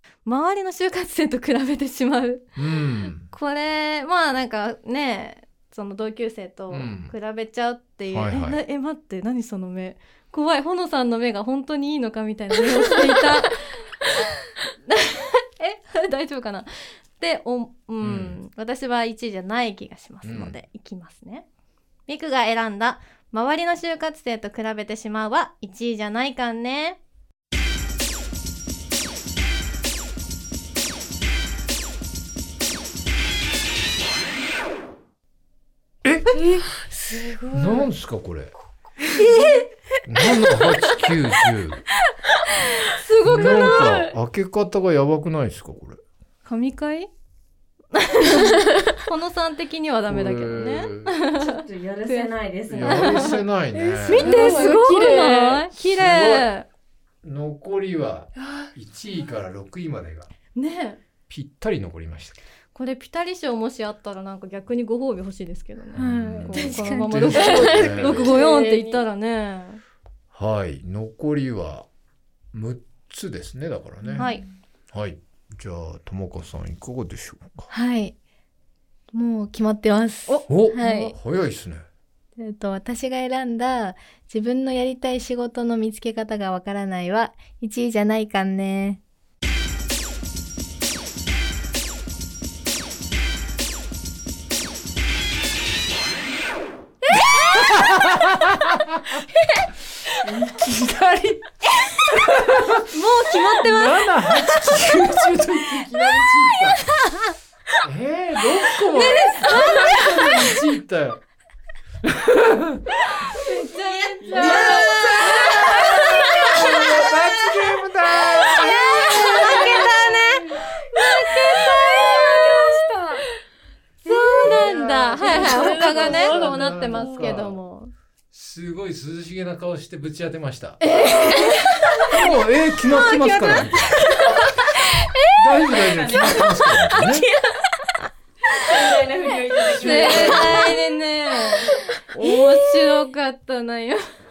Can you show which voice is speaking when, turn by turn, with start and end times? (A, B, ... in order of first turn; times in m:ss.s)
0:00.2-0:02.4 A
0:02.6-0:03.3 B
0:03.2-0:13.6 A
0:06.7-0:07.2 B
0:08.1-0:08.6 B
0:14.9-0:21.5 A
0:18.0-0:18.4 B
0:20.2-0:20.6 B
0:22.1-0:27.0 A
0:36.0-0:36.3 B
0:36.5-0:37.9 C
0:37.5-0:38.5 B
0:39.2-0:39.5 D
0:40.1-0:41.8 B
0:42.9-0:43.8 A
0:43.2-0:46.0 B
0:43.6-0:43.9 C
0:46.4-0:47.1 A
0:48.0-0:51.4 A
0:50.1-0:51.1 B
0:51.4-0:53.3 D
0:52.1-0:53.4 A
0:52.7-0:54.4 B
0:53.7-0:55.6 C
0:54.1-0:56.7 A
0:54.6-0:54.8 E
0:55.7-0:56.5 B
0:57.2-1:00.3 B
0:58.4-0:58.7 C
1:00.6-1:01.0 A
1:01.3-1:02.4 B
1:02.7-1:09.8 A
1:06.0-1:08.4 B
1:06.5-1:09.0 C
1:10.3-1:11.9 B
1:12.5-1:14.3 B
1:14.2-1:14.4 A
1:14.9-1:17.7 B
1:17.7-1:18.1 E
1:19.1-1:21.2 E
1:20.5-1:21.9 B
1:22.4-1:29.0 E
1:37.5-1:39.0 B
1:40.2-1:41.4 B
1:42.1-1:46.8 B
1:42.9-1:44.1 A
1:47.8-1:51.2 B
1:49.3-1:50.0 A
1:49.3-1:49.8 E
1:52.0-1:52.8 B
1:53.4-1:56.9 A
1:53.6-2:02.9 D
1:54.2-1:59.6 B
1:58.5-2:00.0 A
2:01.0-2:03.2 E
2:01.3-2:02.6 A
2:04.0-2:07.9 A
2:04.1-2:05.8 D
2:04.4-2:04.7 B
2:05.2-2:07.3 C
2:05.3-2:07.6 B
2:08.3-2:10.8 B
2:10.8-2:12.2 A
2:12.1-2:14.2 B
2:12.8-2:15.0 A
2:15.4-2:17.3 B
2:15.5-2:16.5 A
2:18.6-2:20.8 D
2:19.7-2:24.0 A
2:19.8-2:20.7 B
2:22.4-2:22.9 C